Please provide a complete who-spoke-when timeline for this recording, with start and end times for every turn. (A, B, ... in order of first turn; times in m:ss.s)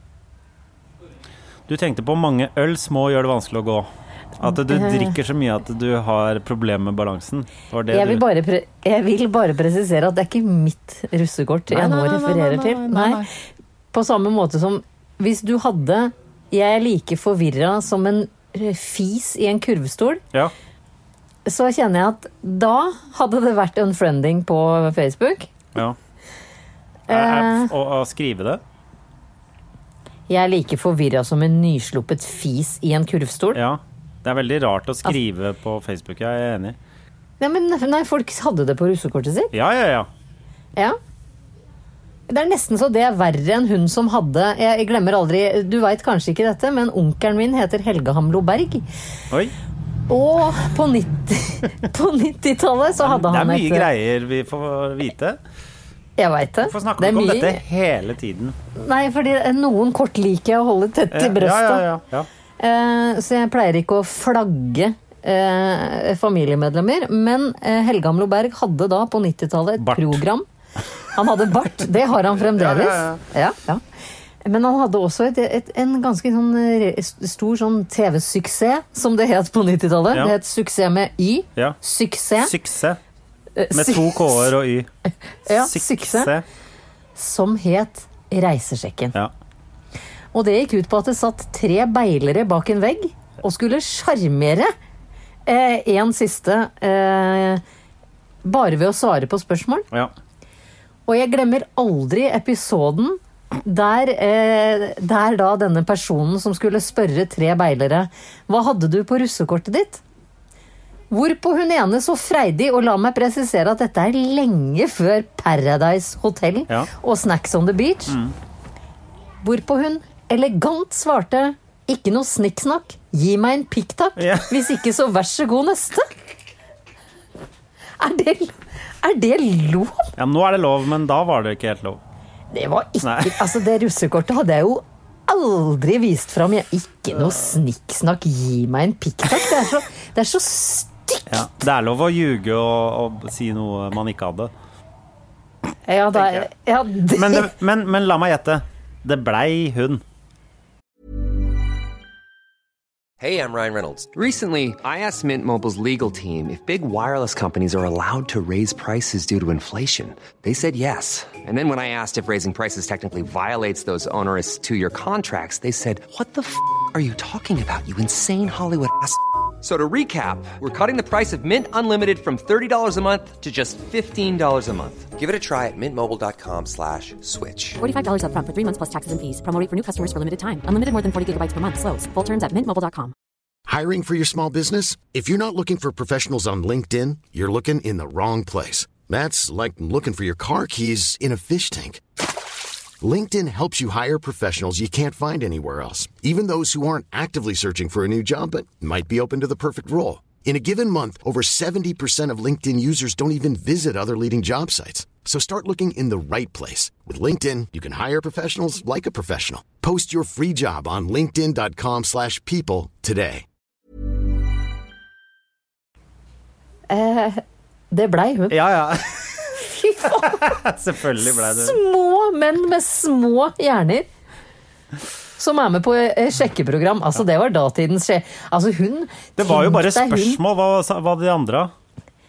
0:01.7-0:08.2 A
0:04.4-0:05.2 B
0:07.9-0:13.2 B
0:11.7-0:13.3 A
0:13.9-0:20.2 B
0:21.5-0:25.5 B
0:27.1-0:27.7 B
0:27.1-0:28.6 A
0:30.3-0:33.6 B
0:33.5-0:36.8 A
0:37.4-0:39.5 B
0:39.5-0:40.1 A
0:42.3-0:48.9 B
0:50.1-0:53.9 B
0:53.0-0:55.4 A
0:56.2-0:57.6 B
0:56.6-0:58.6 A
0:58.8-1:01.8 B
1:01.1-1:02.3 A
1:02.6-1:10.5 B
1:09.8-1:10.2 A
1:11.1-1:13.8 B
1:12.3-1:13.2 A
1:14.4-1:22.5 B
1:22.4-1:23.0 A
1:23.6-1:24.5 B
1:23.7-1:24.9 A
1:25.5-1:26.3 B
1:25.5-1:26.4 A
1:27.2-1:29.2 B
1:30.3-1:34.7 B
1:35.5-1:37.6 B
1:38.4-1:39.9 B
1:41.1-1:50.0 B
1:51.1-1:58.2 B
1:58.1-1:58.4 A
1:59.4-2:06.1 B
2:04.2-2:04.6 A
2:08.0-2:10.1 B
2:10.2-2:12.0 A
2:12.5-2:21.4 B
2:13.0-2:13.4 A
2:21.3-2:24.5 A
2:25.9-2:27.5 B
2:26.2-2:26.5 A
2:27.1-2:30.0 A
2:33.2-2:57.8 C
2:57.8-3:03.1 D
3:03.7-3:12.0 E
3:13.0-3:33.4 E
3:36.9-3:38.6 B
3:38.5-3:41.8 A
3:39.5-3:40.5 B
3:41.2-3:44.1 B
3:45.4-3:50.4 B
3:49.4-3:51.7 A